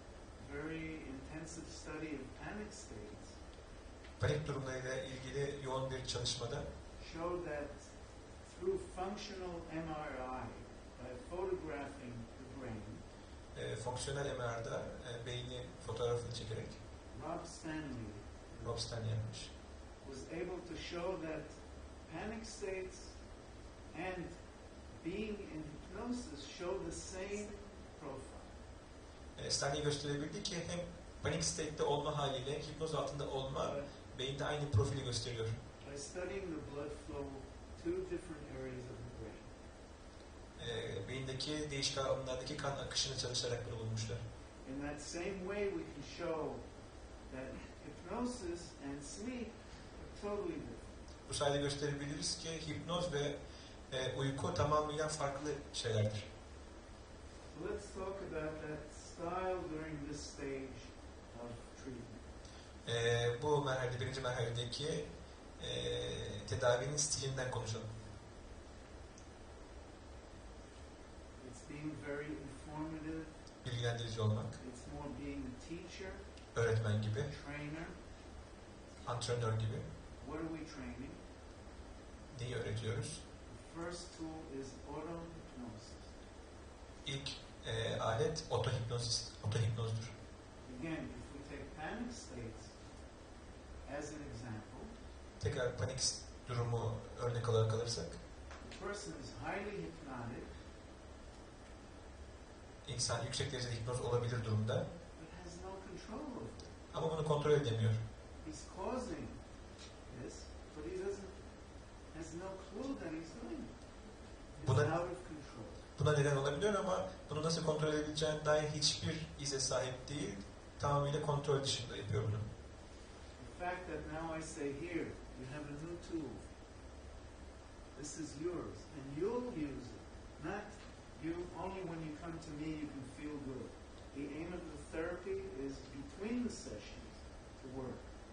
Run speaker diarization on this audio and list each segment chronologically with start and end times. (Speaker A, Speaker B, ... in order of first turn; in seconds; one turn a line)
Speaker A: 0.4-3.4
Speaker B: 4.2-6.7
Speaker A: 7.0-7.9
Speaker A: 8.4-13.0
Speaker B: 13.5-16.8
Speaker A: 17.1-18.9
Speaker B: 18.6-19.5
Speaker A: 20.0-23.2
Speaker A: 23.9-24.4
Speaker A: 25.0-28.6
Speaker B: 29.4-35.6
Speaker A: 33.6-33.9
Speaker A: 35.8-39.6
Speaker B: 40.6-44.2
Speaker A: 44.6-46.7
Speaker A: 47.3-50.9
Speaker B: 51.3-56.3
Speaker A: 57.5-62.2
Speaker B: 62.9-67.9
Speaker A: 71.4-73.3
Speaker B: 73.6-74.6
Speaker A: 74.6-76.2
Speaker B: 76.5-77.3
Speaker A: 77.2-78.0
Speaker B: 79.0-79.9
Speaker A: 80.2-81.2
Speaker B: 82.3-83.2
Speaker A: 83.5-86.1
Speaker B: 87.0-90.1
Speaker A: 90.6-92.8
Speaker A: 93.8-94.9
Speaker B: 95.4-98.2
Speaker A: 98.6-100.5
Speaker B: 102.8-104.9
Speaker A: 105.2-106.8
Speaker B: 106.9-108.0
Speaker A: 108.4-109.4
Speaker A: 110.1-111.4
Speaker A: 112.1-113.8
Speaker A: 114.6-115.8
Speaker B: 114.6-115.0
Speaker B: 116.0-122.5
Speaker A: 123.4-126.5
Speaker A: 128.0-138.1